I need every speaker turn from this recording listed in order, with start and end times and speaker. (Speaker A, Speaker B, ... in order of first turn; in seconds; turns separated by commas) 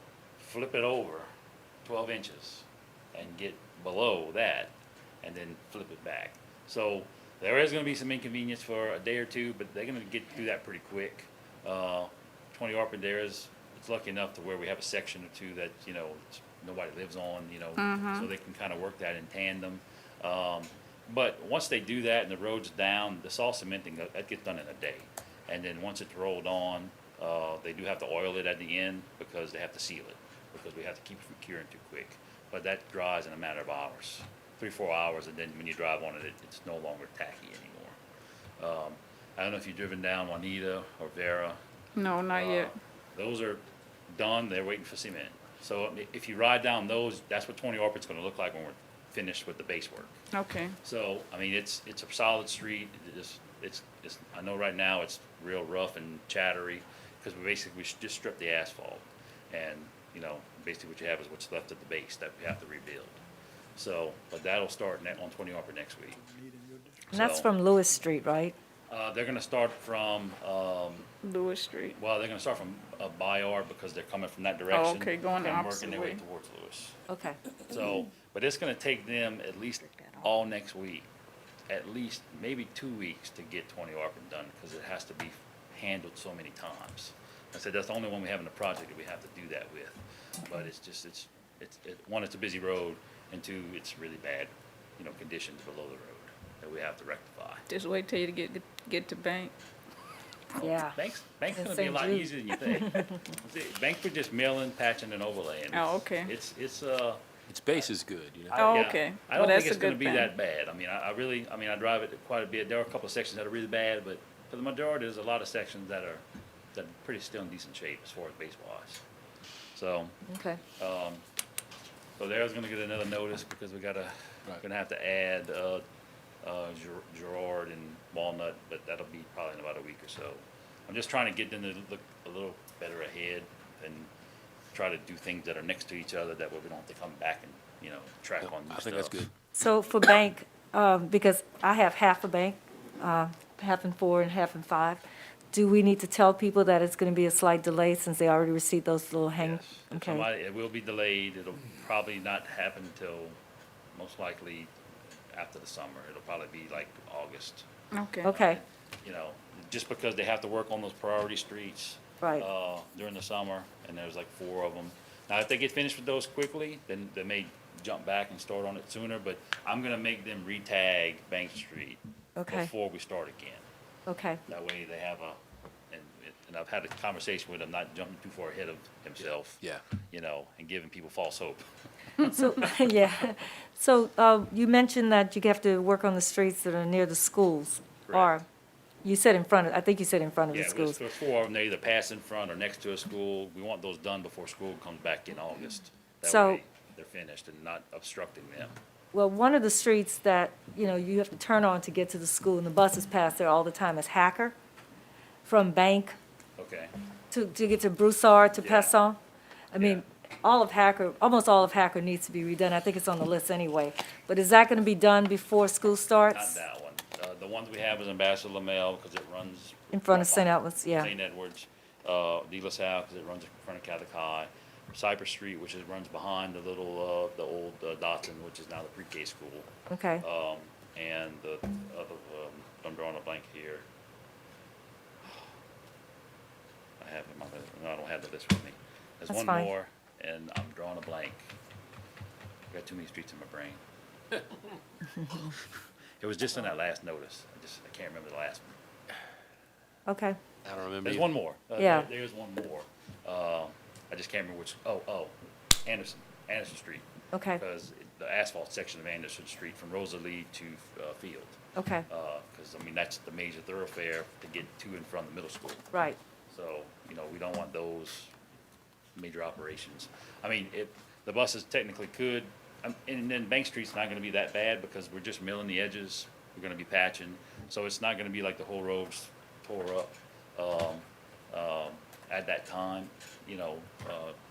Speaker A: 0.4-1.3, Speaker A: 1.8-38.0, Speaker B: 17.8-18.3, Speaker A: 38.6-41.6, Speaker B: 42.0-42.7, Speaker A: 42.3-50.2, Speaker B: 50.3-50.7, Speaker A: 50.8-63.2, Speaker A: 63.8-66.3, Speaker A: 67.1-67.5, Speaker C: 67.1-68.5, Speaker A: 68.9-71.1, Speaker B: 71.2-72.0, Speaker A: 72.0-77.0, Speaker B: 74.7-76.2, Speaker C: 77.1-77.4, Speaker A: 77.6-81.1, Speaker A: 81.7-97.6, Speaker B: 97.7-99.5, Speaker A: 100.6-107.9, Speaker C: 100.6-101.0, Speaker C: 101.5-103.1, Speaker B: 105.7-106.3, Speaker D: 107.5-108.6, Speaker A: 108.5-119.0, Speaker B: 108.5-110.3, Speaker A: 119.7-121.2, Speaker C: 120.3-120.6, Speaker A: 122.2-125.8, Speaker A: 126.4-134.1, Speaker A: 134.7-139.3, Speaker D: 138.4-139.3, Speaker C: 139.5-150.3, Speaker A: 149.4-153.3, Speaker A: 153.9-154.7, Speaker A: 155.3-157.7, Speaker B: 157.9-158.3, Speaker C: 158.2-158.6, Speaker A: 158.3-173.7, Speaker C: 172.4-172.7, Speaker C: 174.1-174.4, Speaker A: 174.5-175.4, Speaker A: 175.9-181.6, Speaker C: 182.2-188.4, Speaker A: 188.1-188.3, Speaker C: 189.0-191.0, Speaker A: 190.5-198.8, Speaker C: 196.2-196.6, Speaker C: 199.1-204.5, Speaker C: 205.4-206.1, Speaker A: 206.6-206.9, Speaker C: 207.3-209.2, Speaker A: 208.6-208.9, Speaker C: 209.7-216.6, Speaker A: 209.8-210.0, Speaker A: 216.3-233.8, Speaker C: 219.9-221.1, Speaker C: 229.9-230.2, Speaker A: 237.0-241.5, Speaker C: 239.3-239.7, Speaker A: 242.7-243.8, Speaker A: 246.2-248.8, Speaker C: 250.1-250.4, Speaker D: 250.6-251.3, Speaker A: 251.0-265.9, Speaker C: 251.8-252.1, Speaker C: 257.3-257.6, Speaker C: 261.7-262.1, Speaker C: 265.9-266.2, Speaker A: 266.5-268.3, Speaker A: 269.1-284.4